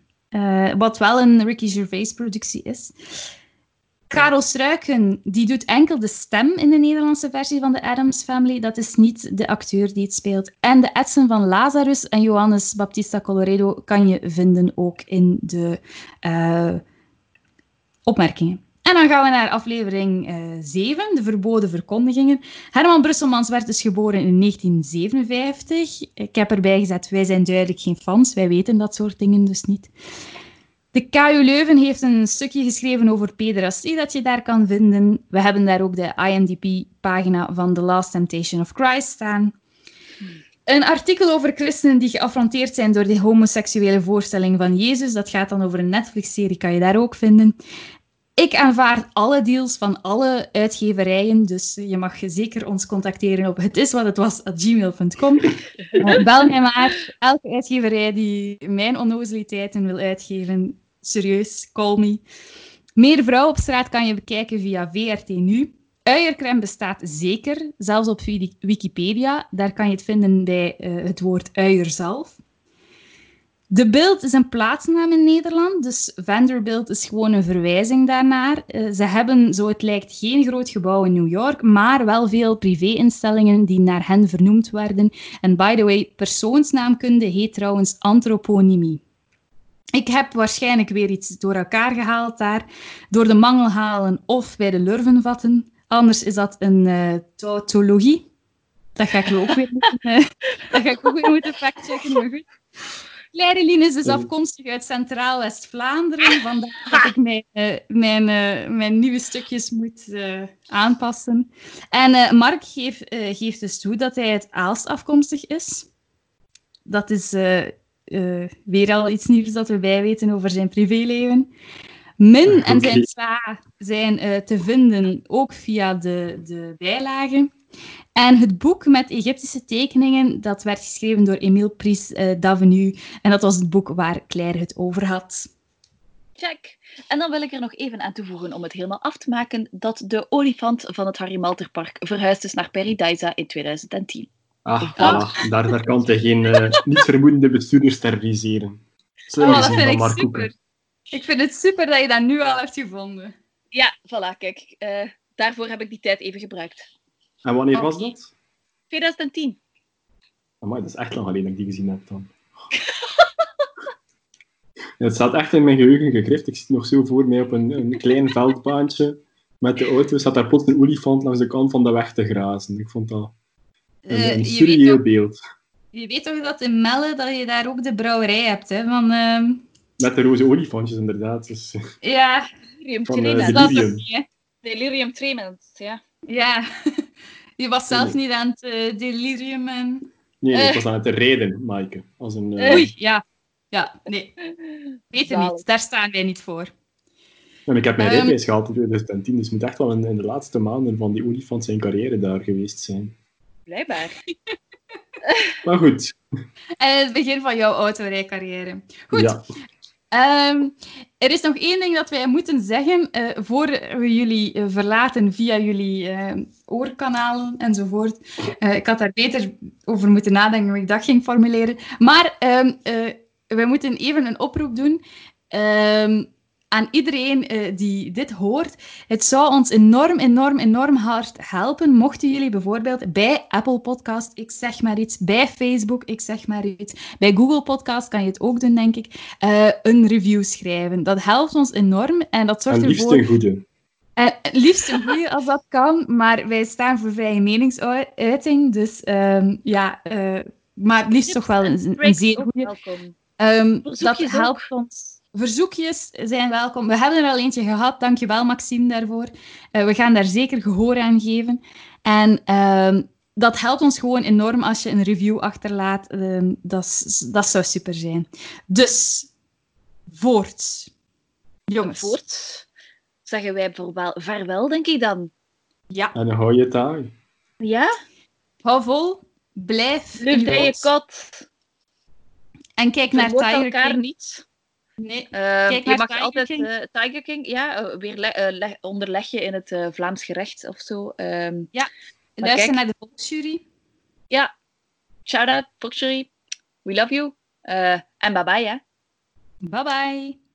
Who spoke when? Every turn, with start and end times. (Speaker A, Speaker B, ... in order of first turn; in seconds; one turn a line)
Speaker A: 0.3-2.9
Speaker A: 4.1-16.8
Speaker A: 18.1-29.9
Speaker A: 30.9-39.5
Speaker A: 40.6-47.5
Speaker A: 48.4-62.2
Speaker A: 63.0-72.4
Speaker A: 73.7-89.0
Speaker A: 89.9-98.3
Speaker A: 99.0-102.5
Speaker A: 103.3-115.9
Speaker A: 116.8-121.5
Speaker A: 122.2-127.5
Speaker B: 122.5-123.1
Speaker A: 128.1-135.5
Speaker C: 136.4-144.3
Speaker B: 144.6-150.5
Speaker C: 144.8-145.5
Speaker A: 145.0-145.2
Speaker A: 149.4-150.5
Speaker C: 149.4-149.7
Speaker A: 151.1-153.3
Speaker C: 153.7-156.9
Speaker B: 157.4-158.3
Speaker C: 157.7-158.1
Speaker C: 158.9-159.6
Speaker B: 160.6-162.3
Speaker B: 165.0-173.3
Speaker A: 174.0-175.0
Speaker B: 174.1-175.4
Speaker A: 175.9-179.6
Speaker B: 180.0-181.8
Speaker A: 182.0-182.5
Speaker C: 182.8-183.8
Speaker B: 183.1-184.0
Speaker A: 183.3-184.2
Speaker C: 184.6-186.0
Speaker A: 186.3-187.0
Speaker A: 187.6-190.1
Speaker B: 187.9-188.2
Speaker B: 190.4-192.9
Speaker C: 190.5-190.8
Speaker C: 192.6-192.8
Speaker A: 192.7-194.3
Speaker C: 194.5-195.6
Speaker A: 195.1-196.7
Speaker B: 197.7-203.1
Speaker A: 198.0-198.4
Speaker C: 203.7-204.2
Speaker C: 205.2-205.6
Speaker B: 205.6-206.2
Speaker A: 206.8-209.3
Speaker B: 209.1-209.4
Speaker A: 210.1-243.2
Speaker B: 242.7-243.6
Speaker A: 244.2-252.7
Speaker C: 251.3-253.1
Speaker A: 253.4-269.3
Speaker C: 253.8-254.7
Speaker A: 270.1-270.9
Speaker A: 271.7-272.1
Speaker C: 271.8-272.6
Speaker C: 273.2-275.3
Speaker B: 276.1-277.1
Speaker C: 277.6-277.9
Speaker A: 278.6-280.9
Speaker C: 280.2-281.5
Speaker A: 282.8-284.0
Speaker C: 283.1-284.4
Speaker A: 285.0-286.7
Speaker C: 285.3-291.7
Speaker A: 291.7-293.6
Speaker C: 292.4-292.8
Speaker C: 295.3-296.3
Speaker C: 296.8-298.8
Speaker A: 299.6-300.4